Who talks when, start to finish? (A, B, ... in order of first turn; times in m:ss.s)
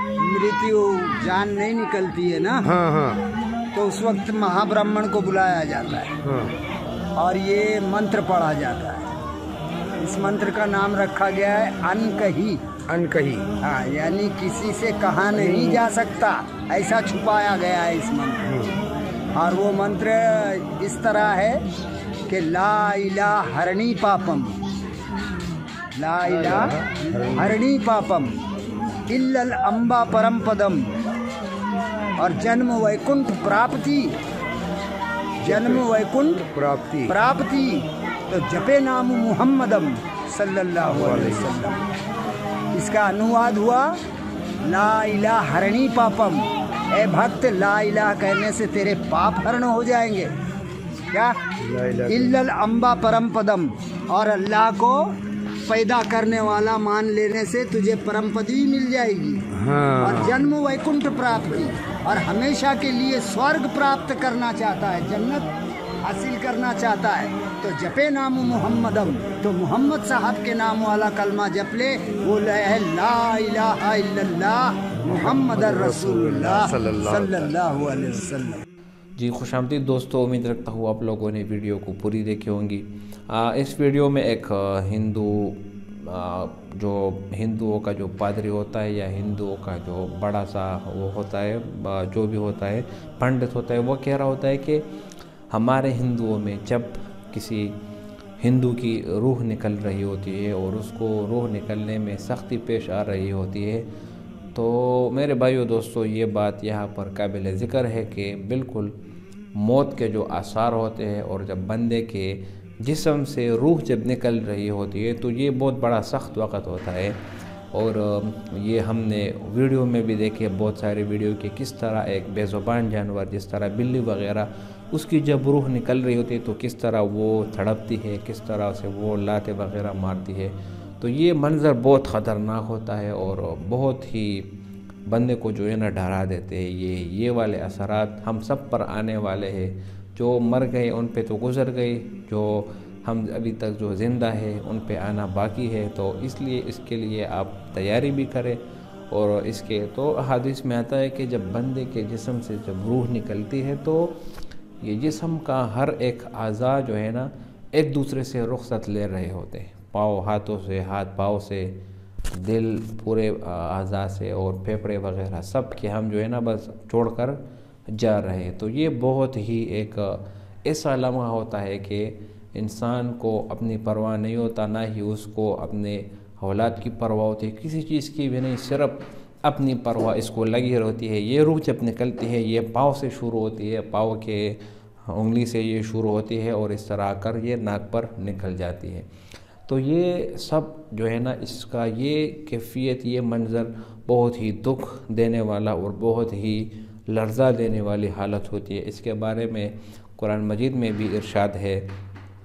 0:00.2-0:02.7 A
0:02.6-0:03.2 B
0:03.7-0:06.1 A
0:06.2-0:06.5 B
0:07.2-0:09.1 A
0:10.0-0:12.6 A
0:12.9-0:13.5 B
0:13.6-0:18.4 A
0:18.5-0:18.8 B
0:19.4-0:21.6 A
0:22.3-0:24.6 A
0:26.0-0:28.3 A
0:26.4-0:27.6 B
0:29.1-0:30.9 A
0:32.2-0:34.2 A
0:35.4-0:35.9 B
0:35.4-0:36.4 A
0:36.4-0:37.2 B
0:37.1-0:41.8 A
0:40.9-0:41.6 B
0:42.7-0:43.9 A
0:44.7-0:50.3 A
0:51.6-0:52.3 B
0:52.1-0:55.1 A
0:55.7-0:59.4 A
0:59.5-1:00.4 B
1:00.0-1:05.5 A
1:06.0-1:18.6 A
1:15.0-1:17.7 B
1:19.2-1:34.8 C
1:35.5-1:37.8 C
1:38.4-1:43.9 C
1:44.5-1:48.9 C
1:49.5-1:57.2 C
1:57.7-2:14.5 C
2:15.1-2:34.2 C
2:34.8-2:41.8 C
2:42.3-3:09.1 C
3:09.7-3:21.9 C